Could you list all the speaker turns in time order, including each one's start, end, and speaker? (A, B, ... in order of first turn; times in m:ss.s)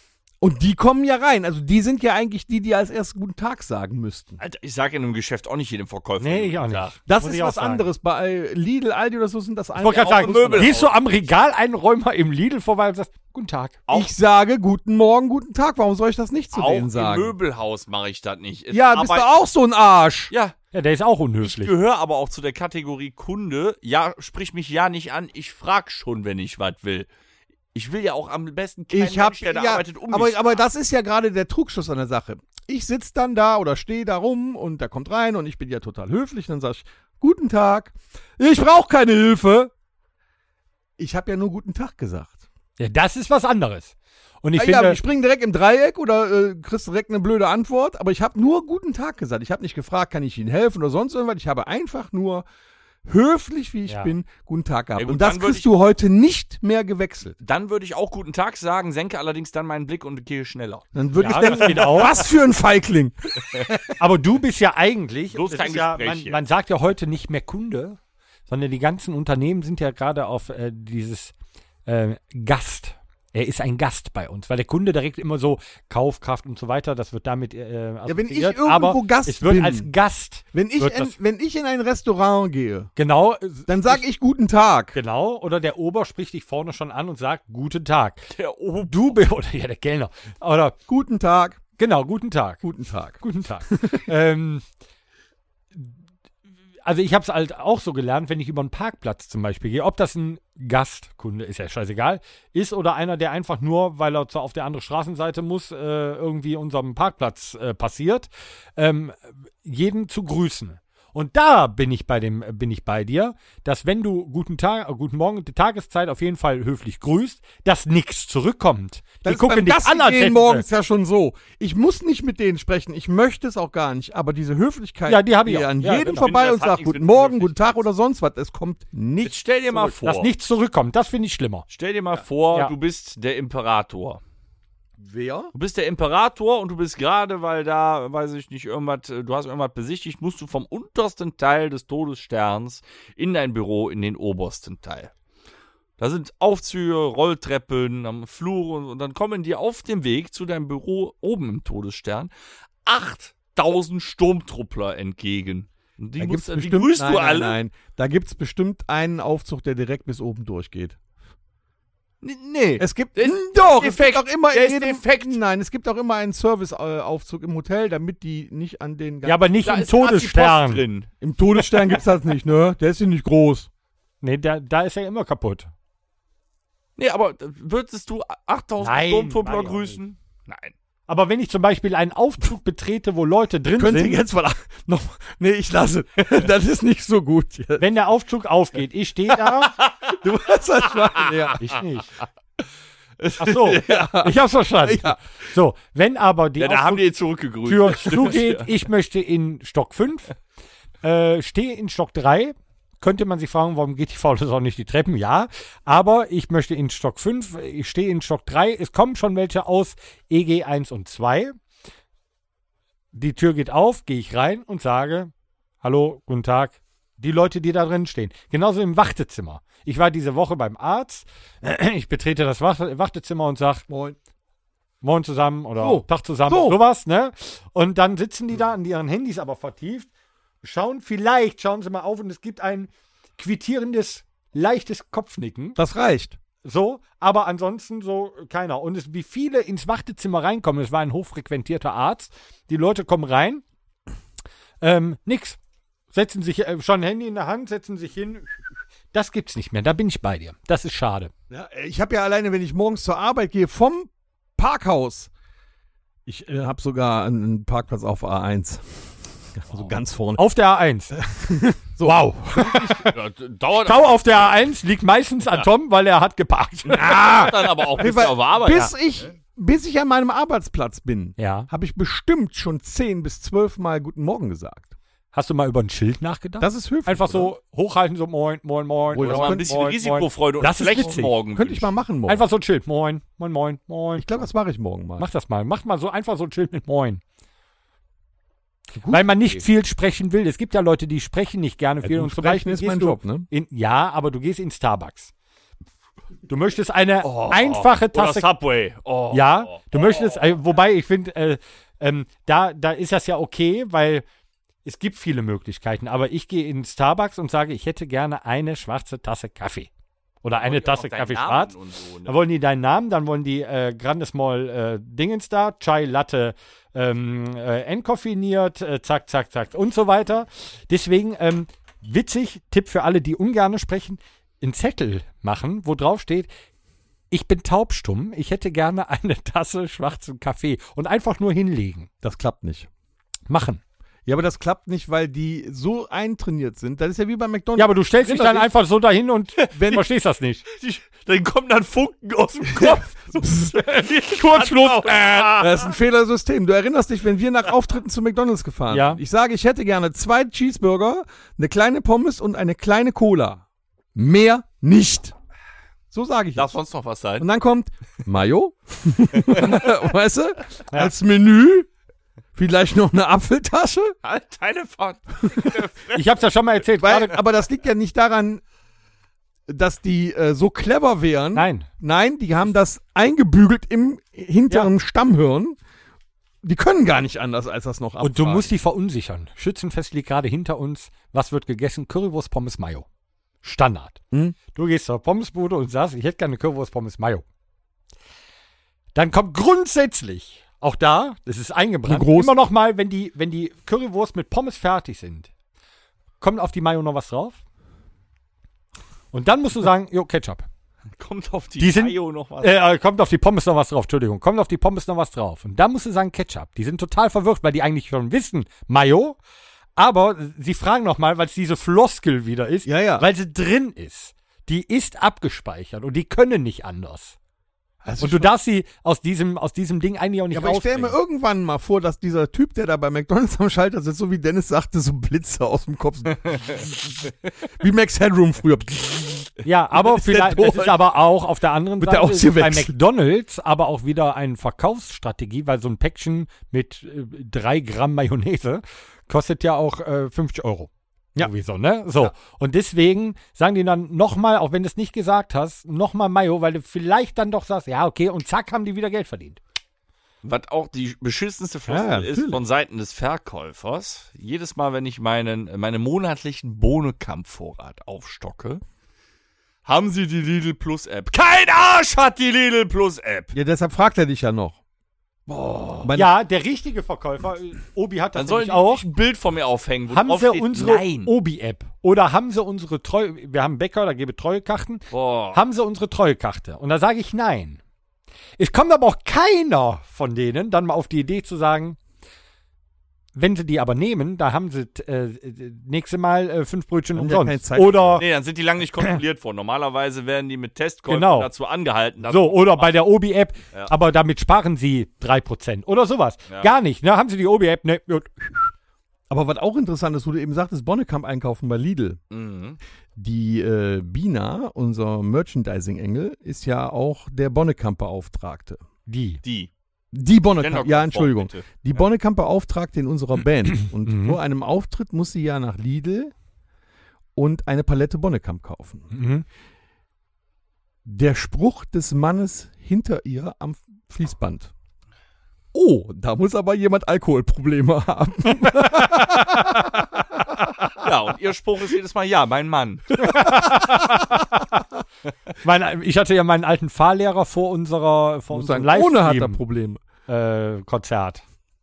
0:00.4-0:04.4 A
0:04.4-0:07.0 B
0:06.2-0:07.9 C
0:07.1-0:10.8 A
0:09.8-0:13.8 C
0:09.8-0:11.2 B
0:13.9-0:17.3 A
0:16.5-0:19.3 B
0:18.7-0:20.3 A
0:20.7-0:21.7 C
0:21.4-0:27.1 B
0:27.7-0:30.6 B
0:28.9-0:39.7 A
0:41.0-0:42.4 A
0:42.8-0:45.0 C
0:44.6-0:52.4 A
0:53.0-0:57.4 A
0:53.9-0:54.1 C
0:55.0-0:55.7 B
0:57.4-1:01.9 B
1:00.9-1:03.7 A
1:01.2-1:02.3 C
1:04.0-1:11.3 C
1:05.3-1:06.4 B
1:11.8-1:21.1 C
1:18.0-1:19.9 A
1:20.5-1:22.9 A
1:23.0-1:24.0 C
1:23.7-1:25.0 A
1:24.9-1:28.3 C
1:28.3-1:29.2 B
1:28.9-1:30.7 C
1:30.9-1:31.6 A
1:31.8-1:32.6 C
1:32.6-1:34.1 A
1:33.2-1:34.6 C
1:36.8-2:00.6 C
1:59.2-2:09.4 A
2:05.0-2:06.3 C
2:06.0-2:07.8 B
2:09.2-2:10.3 B
2:09.7-2:11.6 C
2:11.7-2:14.2 B
2:15.0-2:15.5 A
2:15.5-2:25.1 B
2:26.0-2:32.3 B
2:32.8-2:37.6 B
2:36.2-2:41.0 A
2:42.2-2:45.4 B
2:42.8-2:49.4 A
2:49.2-2:50.8 C
2:49.6-2:51.1 B
2:51.2-2:53.7 A
2:54.2-2:55.7 C
2:57.0-3:00.7 B
2:58.8-3:00.0 C
3:01.1-3:04.2 C
3:03.7-3:07.8 A
3:07.8-3:09.7 C
3:09.6-3:10.2 B
3:10.1-3:11.6 A
3:10.9-3:11.7 B
3:11.6-3:12.1 C
3:13.2-3:14.0 B
3:13.4-3:17.0 C
3:13.7-3:15.2 A
3:16.6-3:18.7 B
3:17.6-3:20.3 C
3:21.0-3:31.6 C
3:33.1-3:35.3 C
3:35.8-3:43.8 C
3:43.9-3:44.2 A
3:45.0-3:50.1 C
3:45.8-3:46.8 A
3:50.6-3:55.8 C
3:55.8-3:56.4 A
3:56.6-4:03.6 C
4:04.8-4:05.6 C
4:06.1-4:11.3 C
4:11.5-4:15.3 A
4:16.2-4:20.4 A
4:20.4-4:21.2 C
4:21.1-4:23.0 A
4:22.0-4:23.1 C
4:23.0-4:24.5 B
4:23.8-4:27.2 C
4:26.9-4:29.3 B
4:26.9-4:34.9 A
4:31.4-4:31.7 C
4:35.3-4:41.4 C
4:36.6-4:37.5 A
4:39.1-4:39.7 A
4:39.2-4:41.9 B
4:40.8-4:42.4 A
4:42.3-4:44.5 C
4:44.2-4:45.3 A
4:45.2-4:47.2 C
4:48.9-4:49.6 A
4:49.1-4:55.3 C
4:52.0-4:53.5 A
4:56.5-4:58.4 C
4:57.2-5:00.6 B
4:59.3-5:04.2 C
5:04.8-5:09.9 C
5:10.4-5:11.7 C
5:10.6-5:12.4 B
5:12.2-5:26.5 C
5:27.3-5:32.1 C
5:32.2-5:32.9 A
5:33.5-5:33.8 C
5:34.2-5:38.7 A
5:37.8-5:40.6 C
5:39.6-5:40.0 B
5:39.7-5:40.0 A
5:40.7-5:45.9 B
5:42.7-5:43.8 A
5:44.5-5:53.6 A
5:44.8-5:45.3 C
5:48.9-5:49.2 C
5:54.1-5:55.3 A
5:56.1-5:56.7 A
5:56.6-5:57.5 B
5:57.4-6:01.9 A
5:59.4-5:59.7 B
6:02.5-6:04.2 A
6:04.2-6:06.3 B
6:06.1-6:07.4 C
6:07.0-6:08.6 A
6:09.7-6:15.8 A
6:11.5-6:11.9 C
6:16.6-6:18.7 A
6:18.2-6:23.0 C
6:23.6-6:24.2 C
6:24.3-6:24.6 A
6:24.7-6:27.4 C
6:29.1-6:35.5 C
6:32.0-6:32.5 A
6:36.4-6:37.6 C
6:39.3-6:40.6 C
6:41.2-6:42.8 B
6:41.8-6:49.4 C
6:50.0-6:57.4 C
6:52.8-6:53.2 A
6:58.0-6:58.5 A
6:58.2-7:01.2 C
7:00.5-7:07.1 A
7:07.7-7:11.0 A
7:09.6-7:29.6 C
7:12.0-7:12.9 A
7:30.4-7:38.8 B
7:31.9-7:32.6 A
7:39.8-7:43.6 B
7:43.5-7:44.8 A
7:45.9-7:46.3 A
7:46.1-7:49.0 C
7:48.3-7:51.3 B
7:50.1-7:57.8 C
7:55.1-7:55.6 B
7:58.6-8:02.0 C
8:03.3-8:08.2 C
8:07.2-8:08.2 A
8:08.2-8:12.9 B
8:11.1-8:11.5 C
8:12.3-8:18.7 C
8:19.3-8:22.2 A
8:22.3-8:22.8 B
8:23.2-8:28.8 A
8:29.1-8:29.4 C
8:29.4-8:29.7 B
8:30.1-8:36.3 A
8:30.6-8:31.8 B
8:34.0-8:34.4 C
8:37.4-8:39.1 A
8:39.1-8:39.4 C
8:41.0-8:44.7 A
8:45.7-8:51.0 A
8:51.0-8:53.3 B
8:53.2-8:54.6 C
8:53.3-8:54.2 A
8:55.6-8:59.6 C
8:58.5-9:00.0 A
9:00.3-9:01.4 C